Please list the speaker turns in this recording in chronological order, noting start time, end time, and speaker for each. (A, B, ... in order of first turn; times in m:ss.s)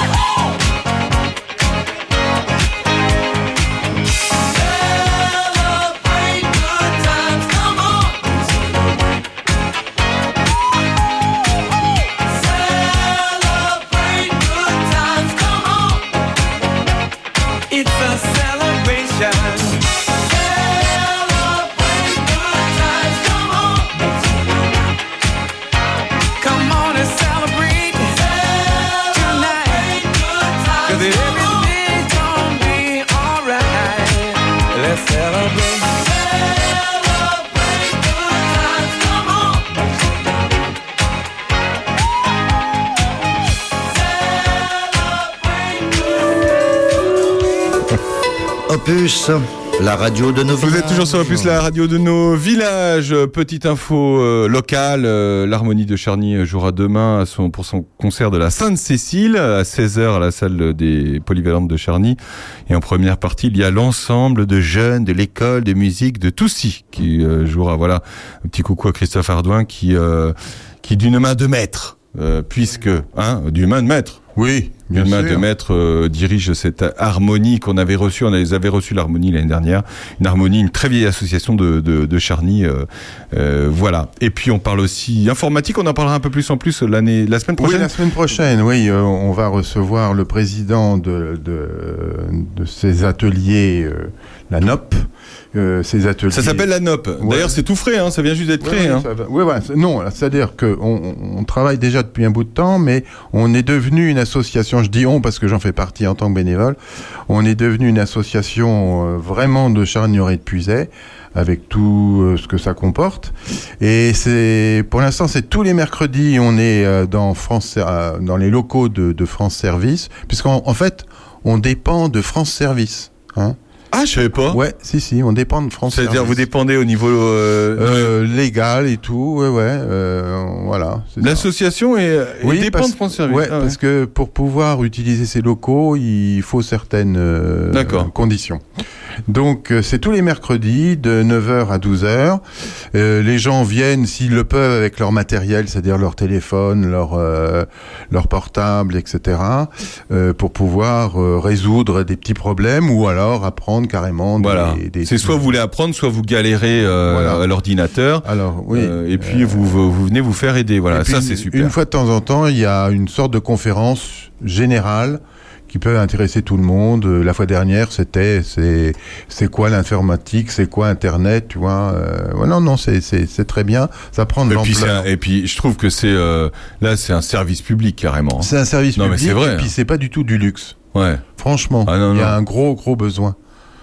0:13.7-0:15.6 A
0:17.7-0:19.8 A
0:21.5-0:23.9 A
0:26.4-0:28.4 A
0:28.9-0:30.1 A
0:30.7-0:36.0 A
0:48.7-0:51.6 B
0:50.6-1:02.2 C
1:02.7-1:14.2 C
1:14.4-1:15.4 D
1:14.9-1:27.9 C
1:27.6-1:37.6 D
1:36.3-1:39.1 C
1:38.6-2:03.6 D
2:03.9-2:04.6 C
2:04.5-2:06.4 D
2:05.9-2:08.1 C
2:07.8-2:11.5 D
2:11.2-2:13.8 C
2:12.4-2:18.6 D
2:17.7-2:18.1 C
2:19.3-2:22.4 D
2:22.9-2:35.5 D
2:34.4-2:41.7 C
2:37.0-2:37.4 D
2:38.2-2:39.8 D
2:40.9-2:55.1 D
2:54.5-2:59.7 C
2:58.4-3:00.8 D
3:00.9-3:01.2 C
3:01.4-3:03.4 D
3:01.9-3:02.4 C